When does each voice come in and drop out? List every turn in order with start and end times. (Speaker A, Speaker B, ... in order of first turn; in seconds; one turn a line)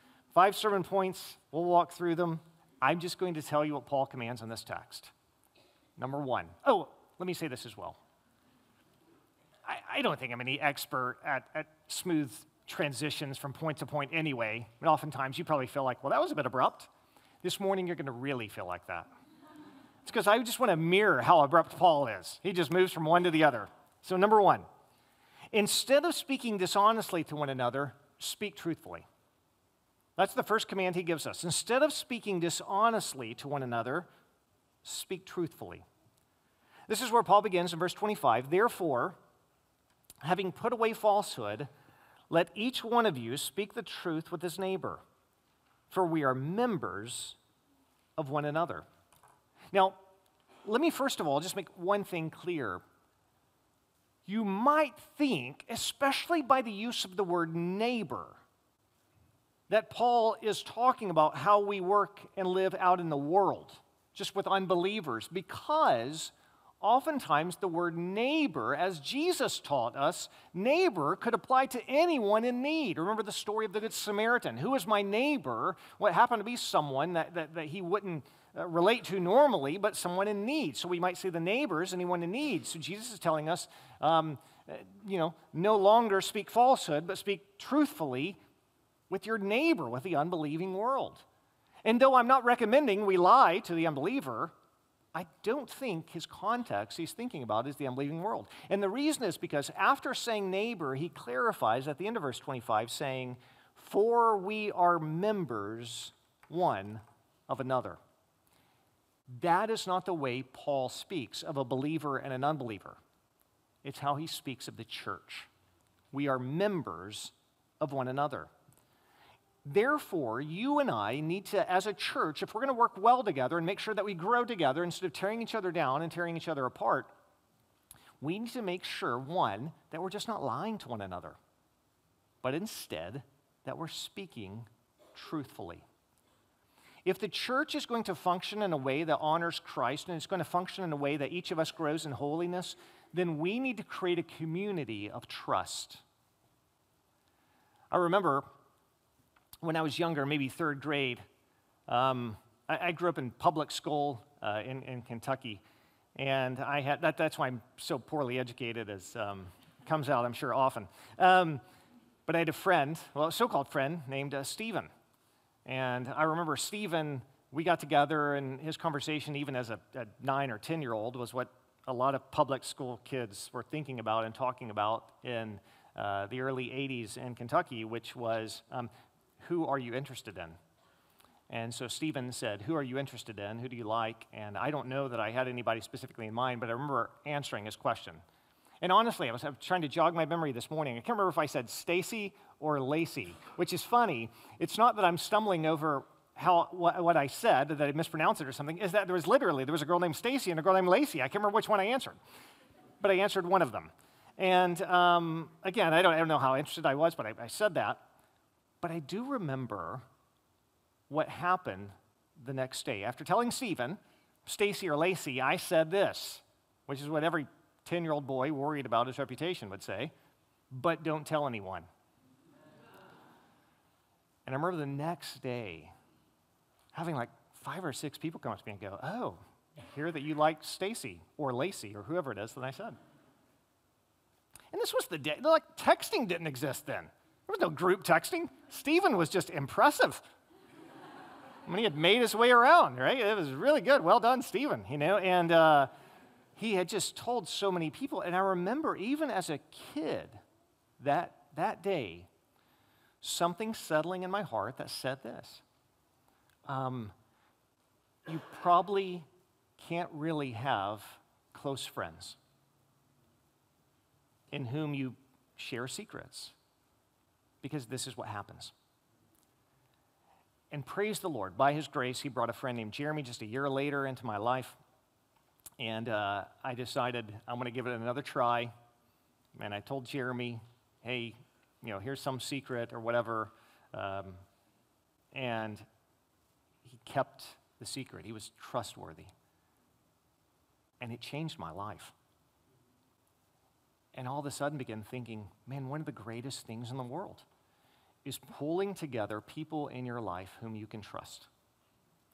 Speaker A: 0.3-5.1
Speaker A: 6.0-8.0
Speaker A: 9.7-16.9
Speaker A: 17.4-19.1
Speaker A: 20.0-24.7
Speaker A: 25.5-29.1
Speaker A: 30.2-34.1
Speaker A: 34.8-35.9
Speaker A: 36.9-39.2
Speaker A: 40.2-41.7
Speaker A: 42.3-45.0
Speaker A: 45.9-47.4
Speaker A: 48.2-48.9
Speaker A: 49.7-50.0
Speaker A: 50.6-52.8
Speaker A: 54.3-58.4
Speaker A: 59.7-88.4
Speaker A: 89.1-91.2
Speaker A: 91.8-94.5
Speaker A: 95.1-108.0
Speaker A: 109.3-113.0
Speaker A: 113.8-115.5
Speaker A: 116.1-118.5
Speaker A: 119.6-127.1
Speaker A: 128.2-131.4
Speaker A: 132.4-135.9
Speaker A: 137.1-146.0
Speaker A: 147.9-148.5
Speaker A: 149.6-151.2
Speaker A: 151.9-155.6
Speaker A: 156.2-161.6
Speaker A: 162.3-164.9
Speaker A: 165.7-180.6
Speaker A: 181.5-188.2
Speaker A: 188.8-202.2
Speaker A: 203.0-208.0
Speaker A: 208.8-210.0
Speaker A: 211.1-220.1
Speaker A: 220.7-221.9
Speaker A: 224.5-225.9
Speaker A: 226.9-233.0
Speaker A: 234.7-240.2
Speaker A: 241.7-245.9
Speaker A: 246.6-250.4
Speaker A: 251.0-252.3
Speaker A: 253.2-255.6
Speaker A: 256.7-257.1
Speaker A: 258.3-259.3
Speaker A: 259.8-262.4
Speaker A: 264.5-266.6
Speaker A: 267.6-268.7
Speaker A: 270.7-274.8
Speaker A: 275.8-278.7
Speaker A: 279.6-284.4
Speaker A: 285.3-285.9
Speaker A: 286.8-289.3
Speaker A: 291.0-292.1
Speaker A: 294.1-297.5
Speaker A: 298.2-301.5